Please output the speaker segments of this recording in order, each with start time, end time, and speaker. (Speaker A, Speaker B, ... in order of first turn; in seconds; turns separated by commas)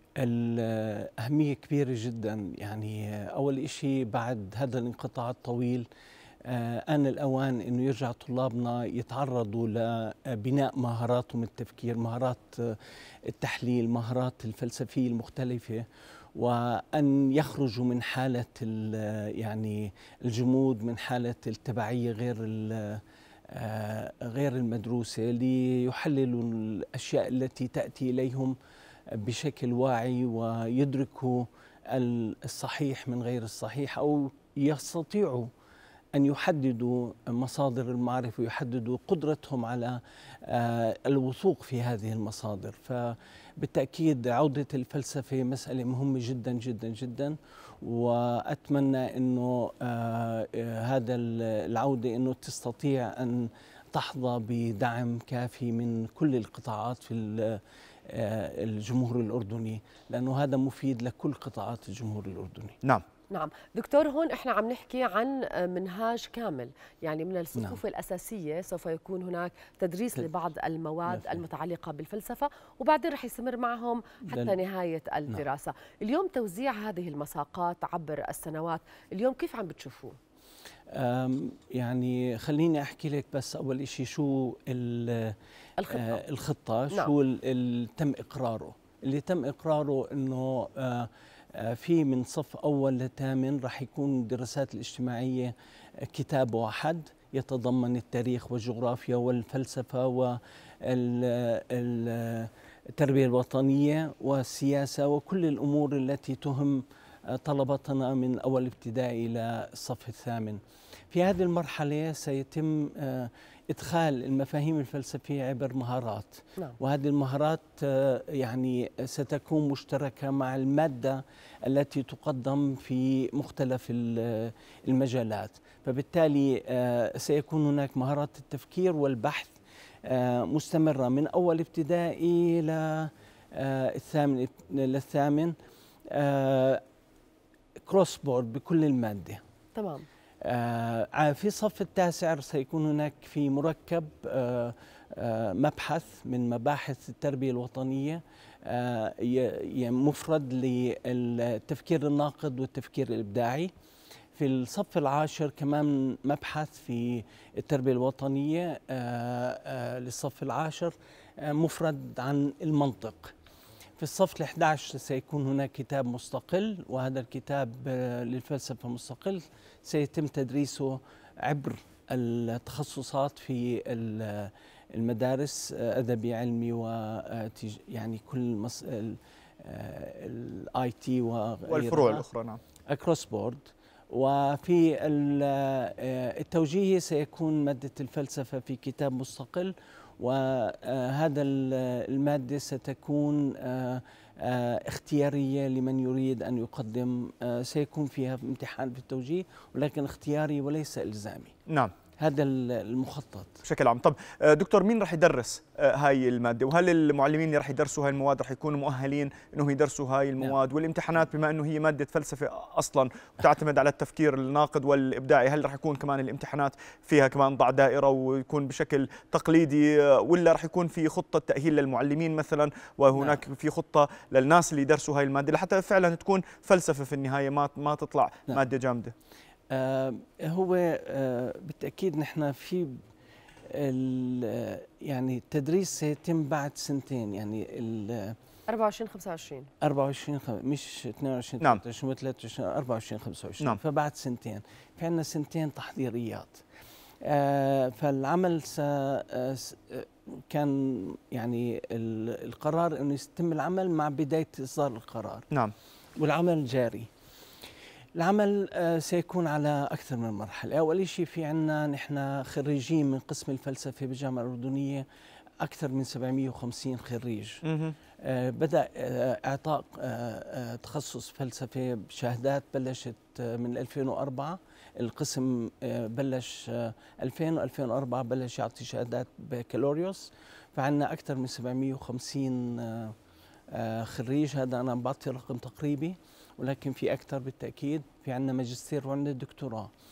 Speaker A: 0.2-5.9, Speaker A: 6.5-28.6, Speaker A: 29.1-35.5, Speaker A: 36.1-62.8, Speaker B: 63.3-80.2, Speaker A: 67.5-67.8, Speaker A: 71.1-71.5, Speaker A: 74.3-74.6, Speaker A: 80.9-85.4, Speaker B: 85.8-86.2, Speaker A: 85.9-135.5, Speaker A: 136.1-136.8, Speaker A: 137.9-139.4, Speaker B: 139.8-140.1, Speaker A: 140.4-153.7, Speaker A: 154.4-163.3, Speaker A: 164.0-182.2, Speaker C: 181.7-182.6, Speaker A: 182.9-201.5, Speaker C: 201.7-201.9, Speaker A: 202.2-203.6, Speaker C: 203.6-229.1, Speaker A: 223.1-223.4, Speaker A: 229.7-233.0, Speaker A: 233.7-238.4, Speaker B: 238.7-239.7, Speaker A: 239.8-246.6, Speaker A: 247.2-255.5, Speaker A: 256.2-257.1, Speaker A: 258.2-265.1, Speaker A: 265.6-267.6, Speaker C: 267.6-268.0, Speaker A: 268.2-283.1, Speaker A: 283.7-289.9